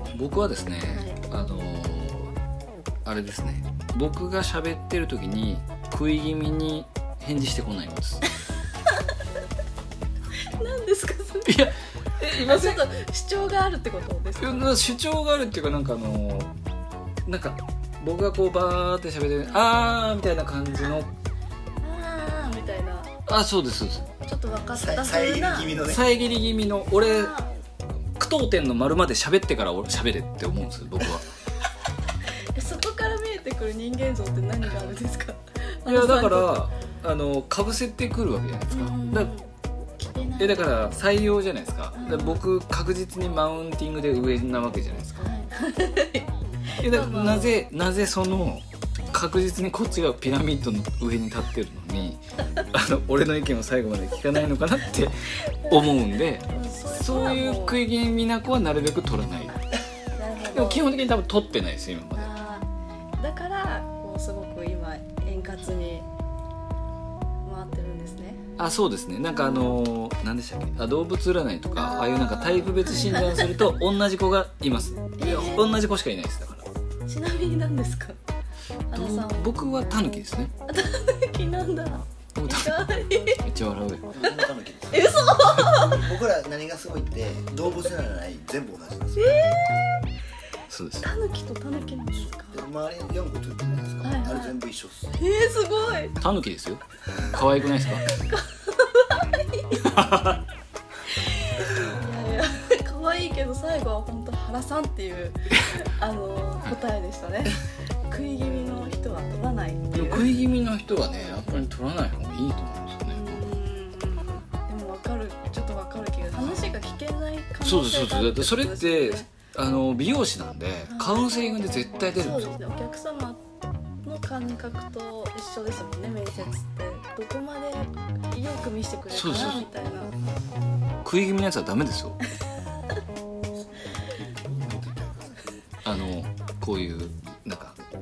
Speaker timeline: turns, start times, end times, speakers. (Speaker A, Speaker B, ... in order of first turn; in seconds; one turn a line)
Speaker A: 0.1-2.4
Speaker B: 0.9-1.2
Speaker A: 3.0-8.2
Speaker B: 10.4-11.6
Speaker A: 11.4-12.8
Speaker B: 12.4-14.7
Speaker A: 14.4-16.5
Speaker A: 17.3-21.1
Speaker B: 21.8-23.1
Speaker A: 23.3-24.1
Speaker B: 24.3-25.8
Speaker C: 24.7-26.1
Speaker A: 25.9-27.3
Speaker B: 26.9-27.5
Speaker A: 28.1-31.3
Speaker B: 32.5-36.6
Speaker A: 35.9-39.3
Speaker B: 38.7-40.8
Speaker A: 40.4-45.3
Speaker B: 42.0-42.4
Speaker B: 45.2-47.6
Speaker A: 46.8-59.6
Speaker B: 55.6-57.9
Speaker B: 60.1-60.9
Speaker A: 60.5-62.3
Speaker B: 62.1-66.1
Speaker B: 67.4-68.5
Speaker A: 68.6-76.7
Speaker B: 69.3-69.8
Speaker B: 71.8-73.6
Speaker B: 75.2-75.8
Speaker B: 77.1-78.2
Speaker B: 78.9-80.1
Speaker A: 78.9-80.5
Speaker B: 80.7-83.4
Speaker A: 82.4-84.2
Speaker C: 84.1-89.3
Speaker B: 84.9-86.1
Speaker B: 89.2-89.8
Speaker A: 90.7-91.1
Speaker B: 91.0-92.6
Speaker C: 92.2-95.1
Speaker B: 94.0-94.6
Speaker B: 95.1-96.2
Speaker A: 96.2-98.1
Speaker B: 98.0-99.8
Speaker A: 99.7-100.4
Speaker B: 101.1-110.3
Speaker A: 110.0-113.5
Speaker B: 113.1-119.3
Speaker A: 116.4-116.7
Speaker A: 117.6-122.5
Speaker B: 120.9-123.4
Speaker B: 124.0-130.1
Speaker A: 129.1-129.7
Speaker A: 131.0-132.2
Speaker C: 133.5-135.6
Speaker A: 135.8-137.8